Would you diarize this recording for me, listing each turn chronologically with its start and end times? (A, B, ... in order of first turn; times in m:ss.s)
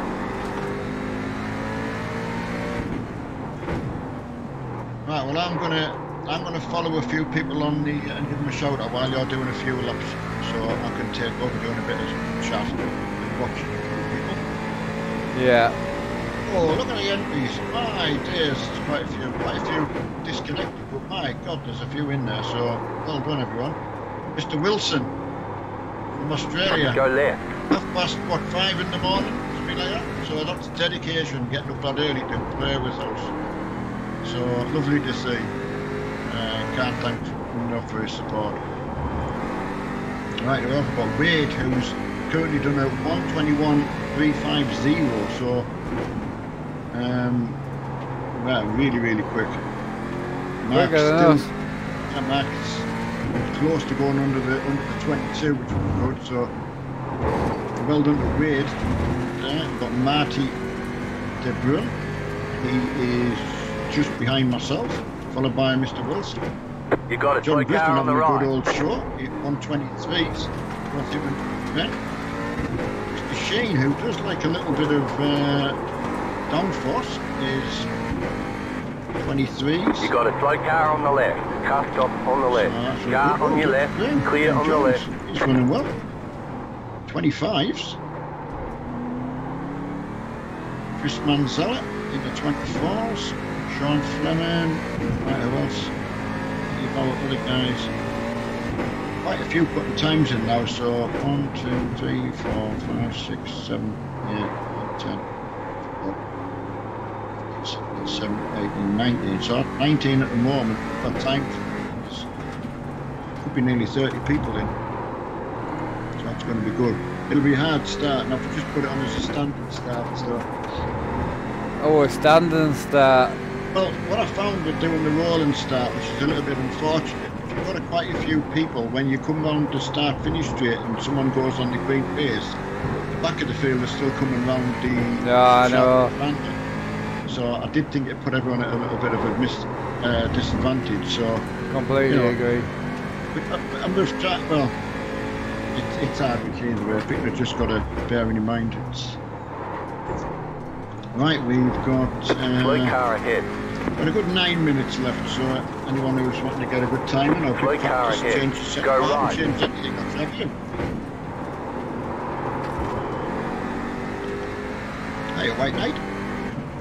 0:05.0-0:14.4 A
0:15.3-0:15.7 B
0:16.5-0:23.8 A
0:24.4-0:25.1 A
0:26.2-0:27.0 A
0:26.7-0:27.4 C
0:27.7-0:33.3 A
0:34.2-0:35.5 A
0:36.3-0:38.6 A
0:40.4-0:45.7 A
0:46.9-0:47.6 A
0:48.3-0:49.6 A
0:50.6-0:51.5 A
0:50.7-0:51.5 B
0:52.1-0:52.9 A
0:53.5-0:56.5 A
0:57.8-0:58.8 A
0:59.3-1:00.6 A
1:01.4-1:01.9 A
1:02.6-1:06.4 A
1:07.1-1:08.5 C
1:07.4-1:11.9 A
1:13.1-1:15.8 A
1:16.5-1:17.9 A
1:19.2-1:20.1 A
1:20.0-1:25.0 C
1:22.5-1:25.9 A
1:27.1-1:28.0 A
1:31.0-1:35.9 A
1:36.7-1:37.9 A
1:39.2-1:45.2 A
1:47.6-1:52.3 A
1:53.4-1:54.7 A
1:56.2-2:00.5 A
2:01.8-2:03.4 B
2:03.7-2:12.6 A
2:13.1-2:16.6 A
2:15.2-2:16.1 B
2:17.2-2:21.4 A
2:21.7-2:22.7 B
2:22.1-2:22.4 A
2:23.3-2:24.7 A
2:25.7-2:29.2 A
2:31.1-2:33.0 A
2:32.6-2:33.5 C
2:34.0-2:40.5 A
2:37.6-2:39.4 C
2:45.3-2:46.0 A